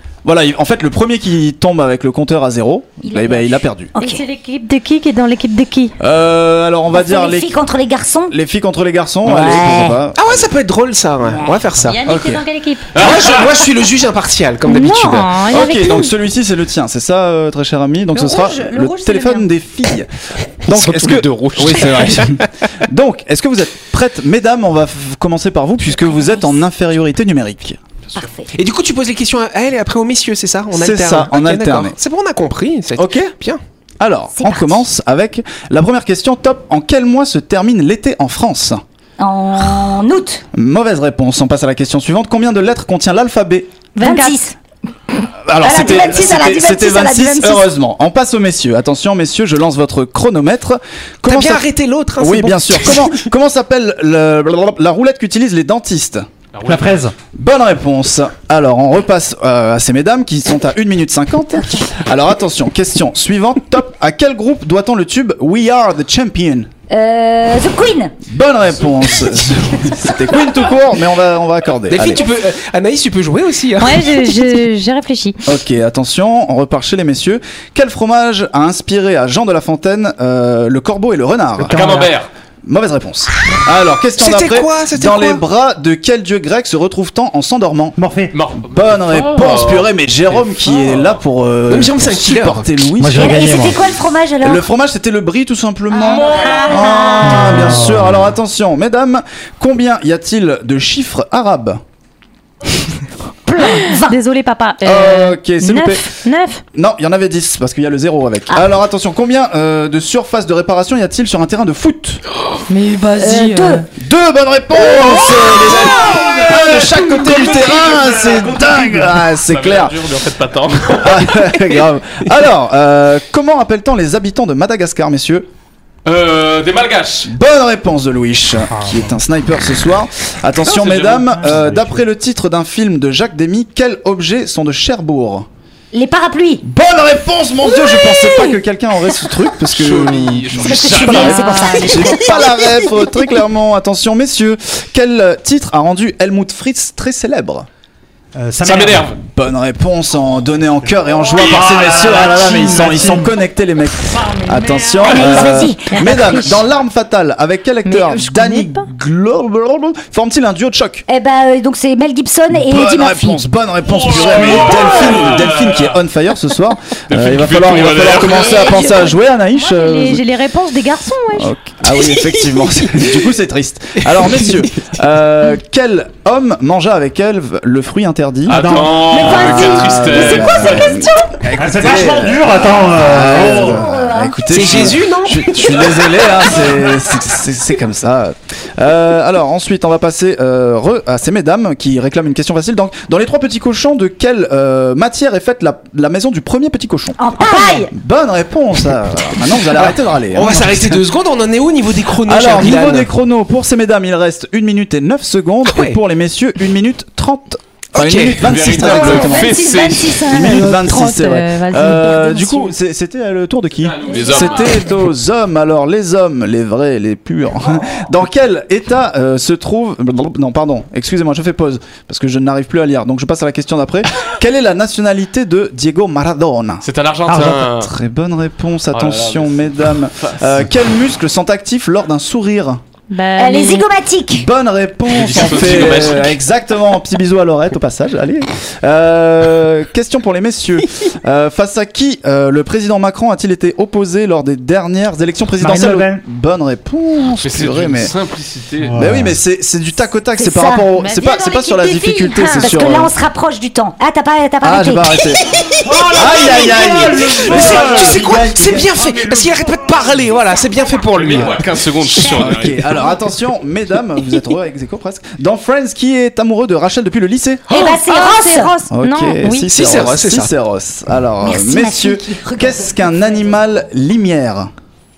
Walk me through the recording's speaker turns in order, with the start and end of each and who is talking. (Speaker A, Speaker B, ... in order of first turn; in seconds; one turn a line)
Speaker A: 0.2-3.9
Speaker B: 3.0-4.2
Speaker C: 4.0-5.9
Speaker A: 6.0-7.6
Speaker B: 6.9-8.3
Speaker A: 8.3-10.5
Speaker B: 9.2-10.0
Speaker D: 10.2-12.0
Speaker C: 11.8-12.9
Speaker A: 12.0-12.4
Speaker D: 12.9-15.4
Speaker E: 12.9-13.4
Speaker C: 14.6-16.1
Speaker A: 15.5-20.1
Speaker C: 18.1-19.5
Speaker A: 20.6-27.8
Speaker D: 20.7-22.5
Speaker B: 26.1-26.4
Speaker B: 28.1-28.5
Speaker D: 28.5-33.6
Speaker A: 30.7-31.9
Speaker A: 33.0-33.3
Speaker A: 34.0-38.8
Speaker B: 34.3-34.8
Speaker B: 39.2-40.4
Speaker A: 40.5-43.7
Speaker C: 44.0-44.4
Speaker B: 44.0-44.5
Speaker A: 45.4-51.6
Speaker B: 45.6-47.7
Speaker D: 51.3-53.2
Speaker A: 52.2-56.2
Speaker E: 56.5-57.0
Speaker F: 56.6-57.1
Speaker A: 57.3-66.7
Speaker B: 66.9-68.1
Speaker A: 68.3-72.2
Speaker D: 71.9-74.5
Speaker C: 73.8-75.5
Speaker A: 75.5-81.8
Speaker F: 81.6-82.1
Speaker E: 81.7-82.3
Speaker A: 82.6-88.0
Speaker D: 84.2-85.4
Speaker F: 88.0-88.3
Speaker E: 88.3-91.2
Speaker A: 88.6-93.7
Speaker D: 91.7-92.9
Speaker F: 93.0-93.8
Speaker B: 93.1-94.6
Speaker A: 94.4-101.8
Speaker B: 96.1-97.7
Speaker C: 96.2-96.8
Speaker F: 97.5-98.1
Speaker B: 103.5-104.2
Speaker C: 103.6-106.6
Speaker A: 104.8-106.1
Speaker A: 106.7-112.2
Speaker C: 112.7-113.9
Speaker B: 113.2-113.8
Speaker A: 114.0-120.1
Speaker E: 115.5-118.3
Speaker F: 118.1-119.1
Speaker E: 119.3-121.5
Speaker A: 120.9-125.5
Speaker E: 126.0-127.3
Speaker A: 127.2-135.5
Speaker F: 128.7-129.1
Speaker E: 130.6-131.8
Speaker F: 131.4-131.9
Speaker B: 135.9-136.6
Speaker A: 136.6-147.7
Speaker B: 137.7-138.5
Speaker E: 139.7-141.3
Speaker B: 140.6-142.9
Speaker C: 141.1-142.3
Speaker F: 148.3-149.1
Speaker E: 148.6-149.2
Speaker A: 148.7-161.0
Speaker F: 150.8-153.3
Speaker F: 154.1-155.0
Speaker B: 155.1-156.6
Speaker C: 155.8-156.6
Speaker C: 157.8-158.9
Speaker B: 161.1-163.5
Speaker A: 162.5-170.3
Speaker E: 163.9-166.0
Speaker E: 167.1-168.5
Speaker B: 168.0-169.1
Speaker C: 168.6-168.9
Speaker C: 169.5-171.5
Speaker A: 171.3-201.0
Speaker D: 171.8-173.2
Speaker D: 174.1-174.7
Speaker E: 178.4-181.0
Speaker F: 178.5-179.0
Speaker B: 179.1-181.1
Speaker F: 181.6-183.8
Speaker D: 181.6-182.1
Speaker B: 183.3-184.8
Speaker D: 184.5-186.6
Speaker B: 197.2-197.9
Speaker D: 199.6-203.1
Speaker A: 202.2-209.6
Speaker D: 205.7-206.0
Speaker D: 207.9-208.7
Speaker E: 208.3-210.2
Speaker B: 208.8-210.7
Speaker C: 208.9-212.7
Speaker A: 210.3-232.8
Speaker E: 213.7-215.1
Speaker E: 226.8-227.9
Speaker F: 227.3-227.6
Speaker E: 228.9-230.7
Speaker C: 233.1-233.9
Speaker B: 233.4-234.5
Speaker A: 234.3-248.2
Speaker E: 235.1-236.4
Speaker F: 245.6-246.2
Speaker E: 247.4-249.3
Speaker F: 248.8-249.3
Speaker A: 248.9-253.1
Speaker B: 250.3-255.2
Speaker C: 250.9-252.7
Speaker A: 254.6-255.4
Speaker F: 255.8-258.2
Speaker A: 256.1-259.1
Speaker D: 256.7-261.7
Speaker F: 259.0-259.9
Speaker E: 261.1-262.9
Speaker A: 261.3-267.6
Speaker B: 267.7-268.7
Speaker C: 267.7-269.7
Speaker A: 268.9-274.7
Speaker D: 269.7-270.5
Speaker B: 271.4-273.1